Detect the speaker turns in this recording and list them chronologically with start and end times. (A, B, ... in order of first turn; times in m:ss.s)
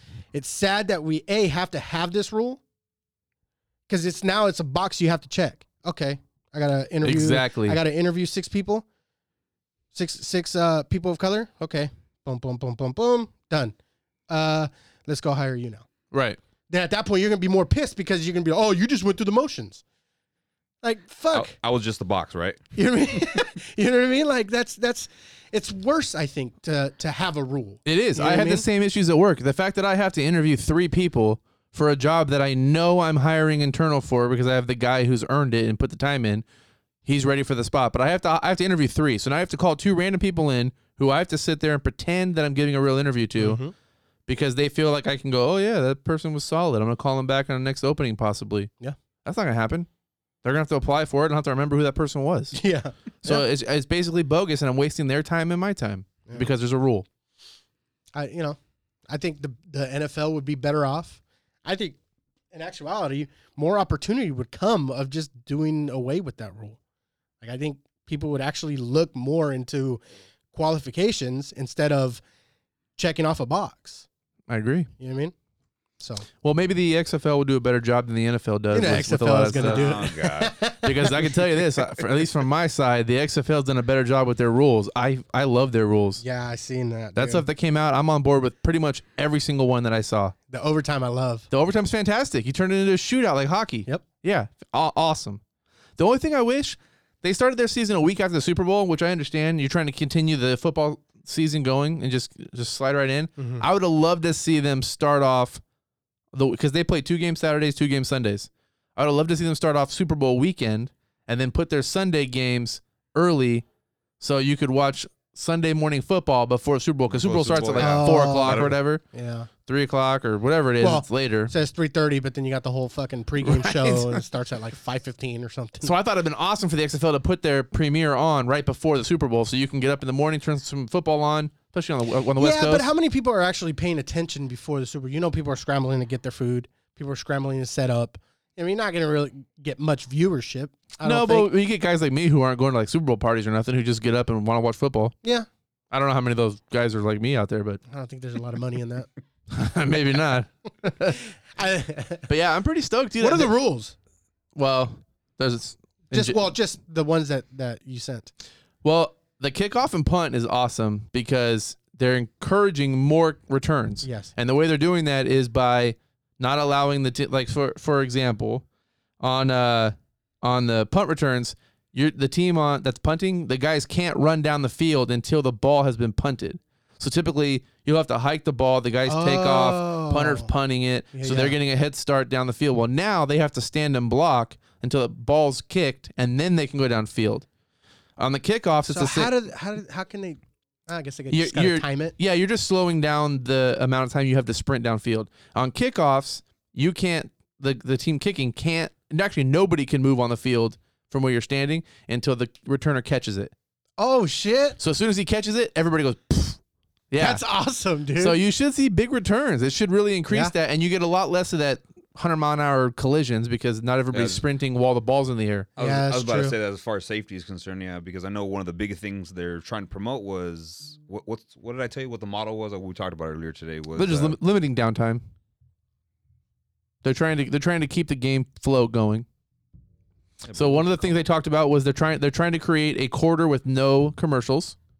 0:00.3-0:02.6 A
0:03.9-0:08.8 A
0:07.0-0:07.8 B
0:09.9-0:13.8 A
0:14.3-0:15.9 A
0:16.1-0:16.4 B
0:16.7-0:19.8 A
0:20.8-0:21.5 A
0:21.3-0:22.6 C
0:22.8-0:28.7 A
0:27.9-0:36.4 B
0:37.0-0:43.6 B
0:43.4-0:43.7 A
0:44.3-0:48.7 B
0:49.2-0:49.9 B
0:50.4-0:52.6 B
0:52.5-0:53.5 A
0:53.2-0:57.1 B
0:58.2-0:58.6 A
0:59.1-1:02.0 A
1:02.5-1:06.8 A
1:07.4-1:10.0 A
1:10.5-1:12.2 A
1:13.0-1:14.1 A
1:14.5-1:14.9 B
1:15.0-1:15.3 A
1:16.0-1:16.3 A
1:16.4-1:20.0 B
1:18.7-1:21.4 A
1:19.6-1:20.6 C
1:20.8-1:26.2 B
1:26.2-1:27.4 A
1:27.2-1:30.4 B
1:30.5-1:31.5 A
1:31.5-1:35.4 B
1:36.0-1:45.6 B
1:43.4-1:43.6 A
1:46.3-1:53.6 B
1:54.2-1:59.0 B
1:57.1-1:58.8 C
1:57.8-1:59.5 A
1:59.7-2:01.5 B
2:00.8-2:05.9 A
2:03.4-2:04.2 B
2:05.8-2:12.9 B
2:12.4-2:21.5 A
2:21.0-2:25.2 B
2:25.9-2:27.8 B
2:27.9-2:29.1 A
2:29.5-2:31.2 B
2:30.9-2:32.3 A
2:32.3-2:33.5 B
2:33.2-2:34.0 A
2:34.6-2:36.4 B
2:36.1-2:38.3 A
2:38.8-2:48.6 B
2:44.0-2:44.3 A
2:49.2-3:07.5 B
2:59.1-3:00.5 A
3:01.1-3:01.6 A
3:08.2-3:09.3 B
3:08.9-3:12.1 A
3:11.3-3:23.5 B
3:24.0-3:24.8 A
3:24.8-3:26.6 B
3:27.1-3:27.4 B
3:27.2-3:28.4 A
3:28.2-3:35.7 B
3:34.1-3:34.4 C
3:35.8-3:44.4 C
3:35.8-3:36.6 A
3:44.0-3:45.2 B
3:47.0-3:49.3 B
3:50.4-3:51.2 C
3:50.5-3:54.8 B